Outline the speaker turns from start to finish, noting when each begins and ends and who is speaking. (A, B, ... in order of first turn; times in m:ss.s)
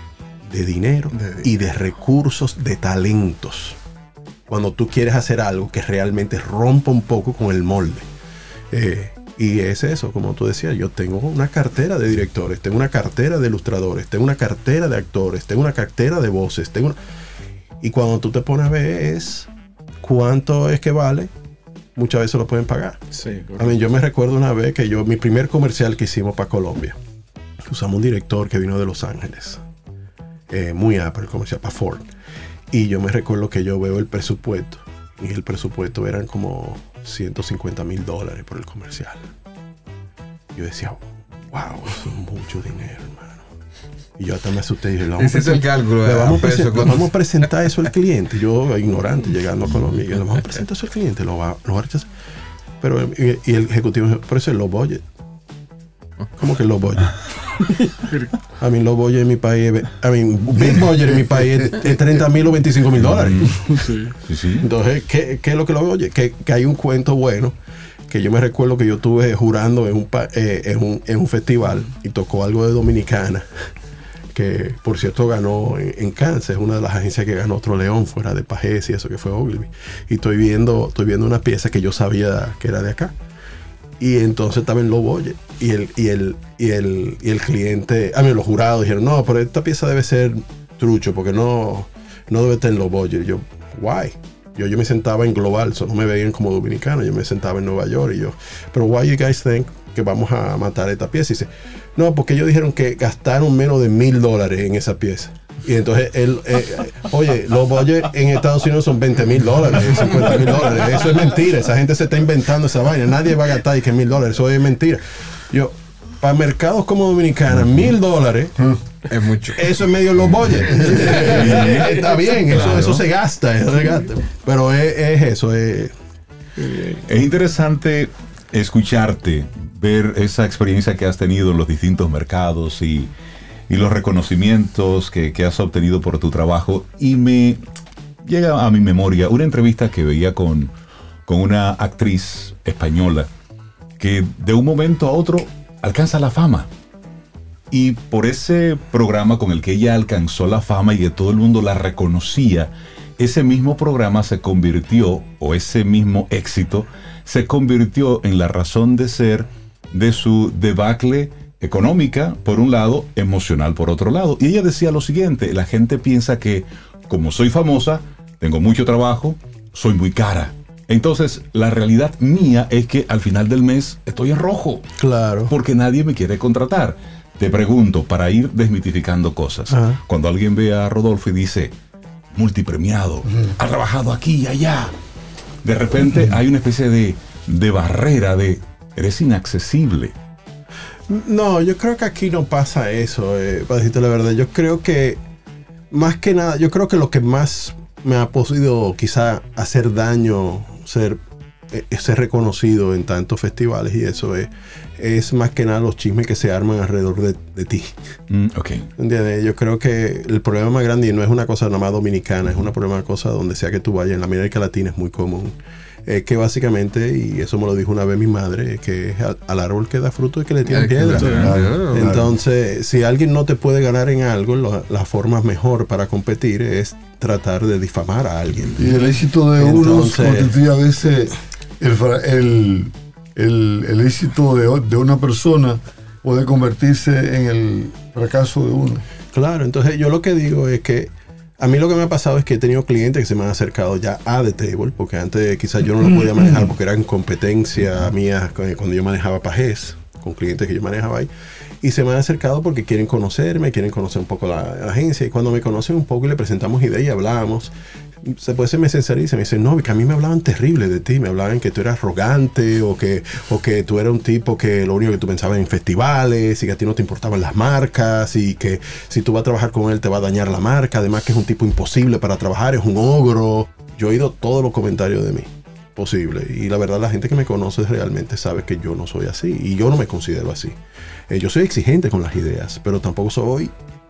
0:00.4-0:03.8 A
0:04.5-0:08.0 A
0:08.7-0:17.0 A
0:17.8-0:19.5 A
0:20.0-0:21.3 A
0:22.0-0:23.0 A
0:23.1-0:23.7 B
0:23.6-0:27.0 A
0:27.7-0:29.6 A
0:30.5-0:32.1 A
0:32.7-0:39.3 A
0:40.6-0:43.4 A
0:44.2-0:52.1 A
0:45.2-0:47.1 C
0:52.8-0:55.0 A
0:56.4-0:57.1 A
0:58.0-0:58.3 B
0:58.6-1:03.9 A
1:03.0-1:03.6 D
1:03.8-1:04.1 B
1:04.3-1:04.7 D
1:04.6-1:07.5 A
1:08.1-1:13.7 A
1:14.3-1:23.1 A
1:24.0-1:58.6 A
1:59.1-1:59.7 C
1:59.5-2:05.9 A
2:00.6-2:01.7 E
2:02.5-2:03.0 D
2:06.6-2:07.0 B
2:07.0-2:13.1 D
2:13.7-2:17.6 D
2:18.2-2:20.7 D
2:21.3-2:23.3 D
2:24.0-2:26.7 D
2:27.7-2:54.9 D
2:55.0-2:55.5 A
2:55.5-3:01.7 D
2:59.7-3:00.0 A
3:02.3-3:04.9 D
3:05.6-3:10.1 D
3:11.1-3:15.2 A
3:15.9-3:21.2 A
3:21.7-3:28.0 A
3:28.3-3:28.9 D
3:29.0-3:35.6 A
3:36.0-3:48.9 A
3:40.7-3:42.1 C
3:41.0-3:41.5 D
3:41.2-3:41.5 B
3:41.4-3:42.3 E
3:48.8-3:59.0 E
3:49.6-3:50.5 A
3:59.3-4:11.3 A
4:11.8-4:40.8 A
4:41.3-4:43.7 A